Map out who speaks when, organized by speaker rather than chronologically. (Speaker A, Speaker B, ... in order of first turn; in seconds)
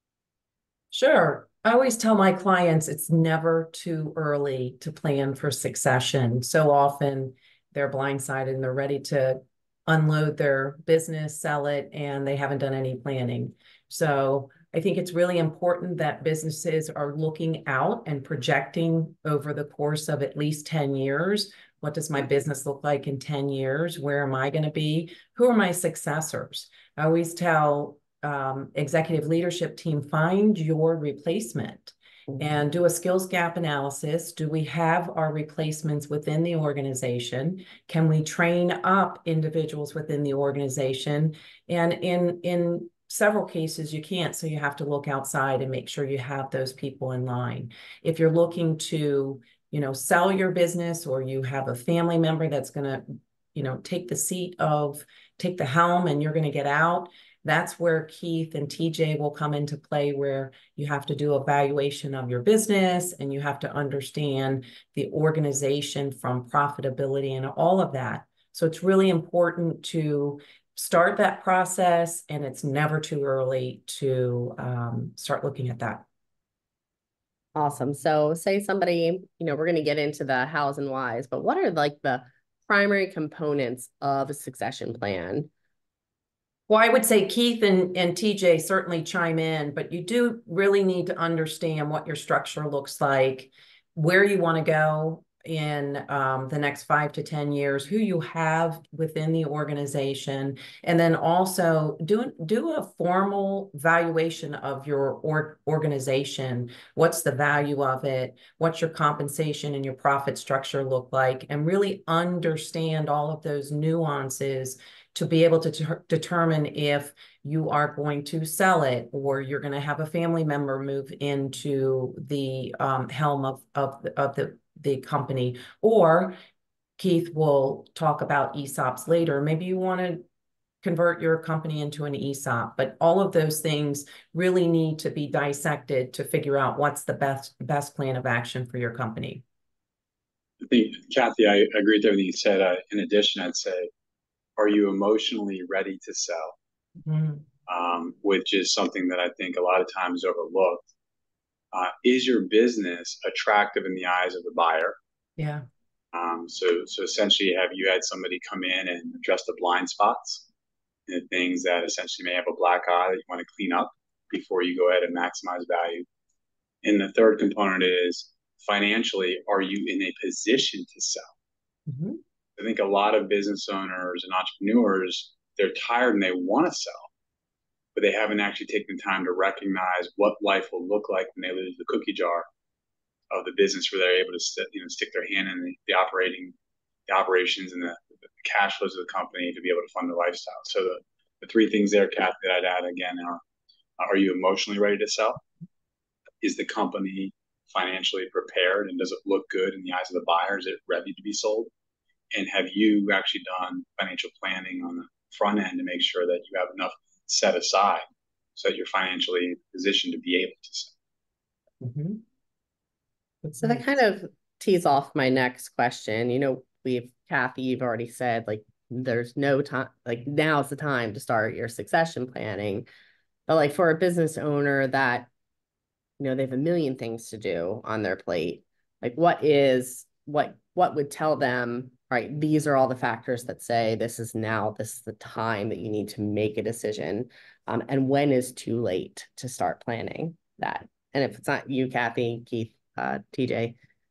Speaker A: 0.9-76.0, 86.7-126.4, 127.0-130.2, 130.8-139.4, 147.0-147.4, 155.4-155.6, 171.9-172.2, 211.8-212.2, 213.4-213.9
Speaker B: 77.5-85.5, 213.6-222.8, 223.5-225.3, 226.2-243.8
Speaker C: 140.6-143.9, 144.6-146.5, 147.7-150.8, 151.7-154.9, 156.1-160.4, 161.1-166.0, 166.8-171.3, 172.6-177.1, 177.9-182.5, 183.3-186.5, 187.1-193.4, 194.0-195.4, 196.4-201.7, 202.3-208.0, 208.6-210.9